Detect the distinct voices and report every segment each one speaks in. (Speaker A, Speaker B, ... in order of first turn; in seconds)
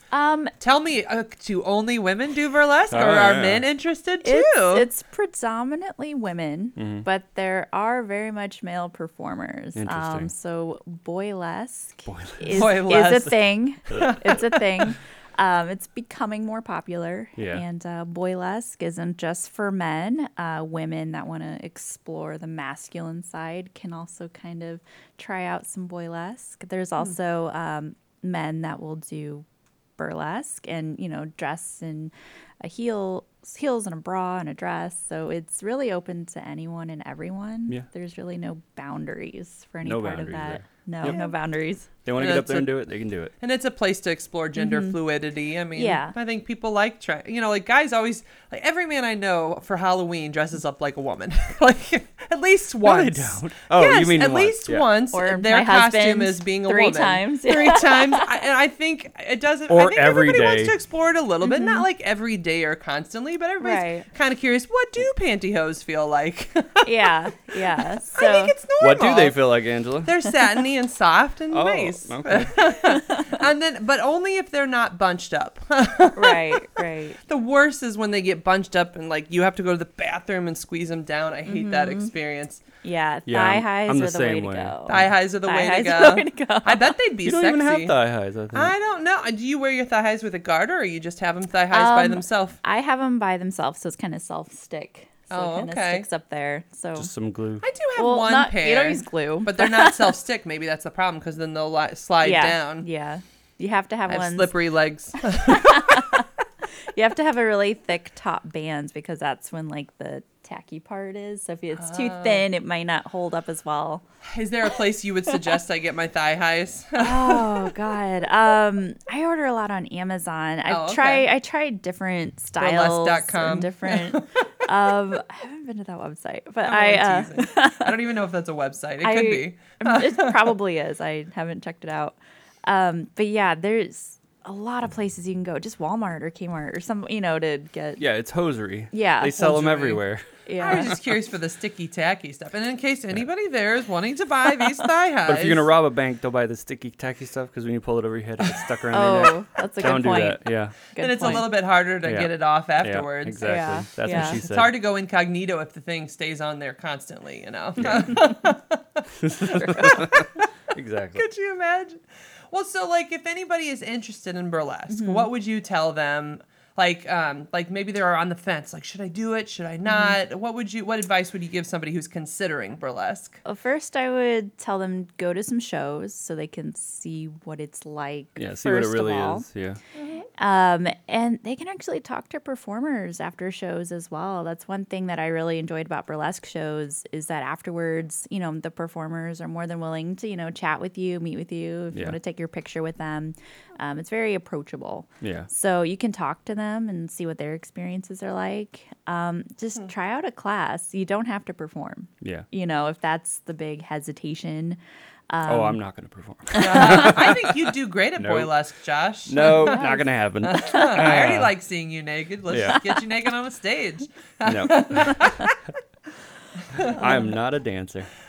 Speaker A: 0.1-0.5, 4.2-29.4, 30.0-41.9, 44.6-45.0, 45.8-46.1, 55.1-58.3, 61.4-61.9, 63.6-64.1, 66.8-68.6, 76.1-77.2, 81.5-82.1, 82.8-87.0, 91.7-97.1, 98.0-100.1, 102.2-104.5, 105.3-106.3, 107.0-114.0, 117.0-127.9, 129.0-138.0, 138.9-139.6, 140.5-141.0, 148.9-151.5, 153.4-154.4, 164.9-165.3, 169.9-170.2, 173.4-179.5, 180.4-204.8, 205.3-205.8, 206.5-207.1, 209.4-210.1
Speaker B: 0.6-4.9, 12.5-14.9, 41.0-41.3, 42.1-42.8, 43.4-67.1, 68.1-82.6, 84.9-88.0, 88.5-92.6, 95.3-96.1, 97.6-102.9, 104.1-106.2, 111.8-112.5, 114.3-117.7, 120.7-121.3, 122.6-124.4, 126.7-130.6, 139.4-140.0, 140.6-145.7, 151.0-160.5, 161.2-173.4, 180.0-180.3, 206.6-209.8, 210.4-215.6, 216.7-217.2
Speaker C: 2.9-3.7, 6.8-7.1, 9.8-10.3, 12.1-12.7, 17.4-17.6, 39.8-41.2, 42.0-43.3, 52.8-54.9, 59.7-60.8, 68.8-70.1, 71.5-72.6, 83.3-85.1, 87.2-88.7, 97.0-97.6, 138.0-140.2, 145.2-151.4, 152.0-154.7, 157.8-158.2, 159.2-161.2, 178.4-179.8, 195.2-195.5, 202.2-202.5, 205.5-208.6, 209.3-211.5, 212.5-212.8, 214.4-215.3, 216.8-218.1